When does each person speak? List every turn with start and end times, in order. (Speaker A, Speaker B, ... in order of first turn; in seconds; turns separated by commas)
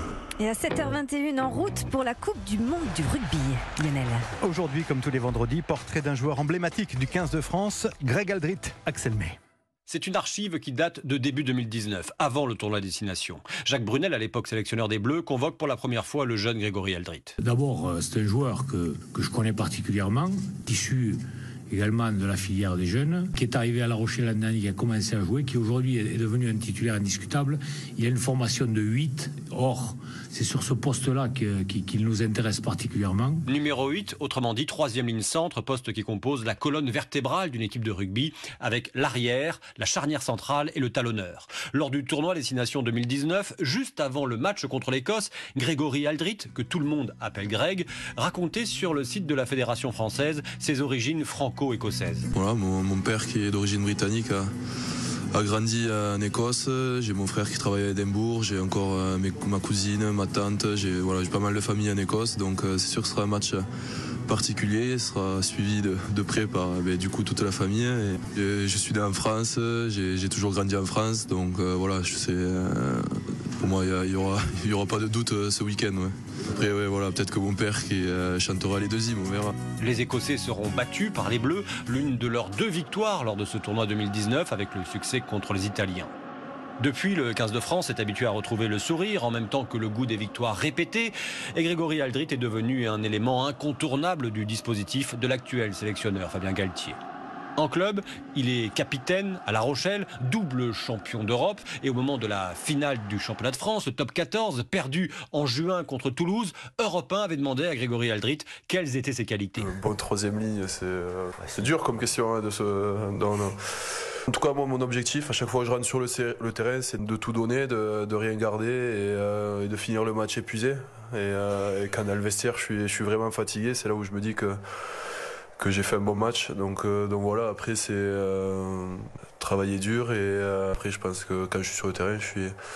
Speaker A: 0.4-4.3, Speaker B: 4.4-9.4, Speaker C: 9.9-17.4, Speaker D: 17.4-33.5, Speaker C: 33.5-52.3, Speaker E: 52.3-54.5, Speaker E: 55.3-63.6, Speaker E: 64.3-73.1, Speaker E: 73.6-79.5, Speaker C: 79.8-86.1, Speaker C: 86.8-97.0, Speaker C: 97.6-109.7, Speaker E: 109.6-113.6, Speaker E: 114.3-124.6, Speaker E: 125.6-132.5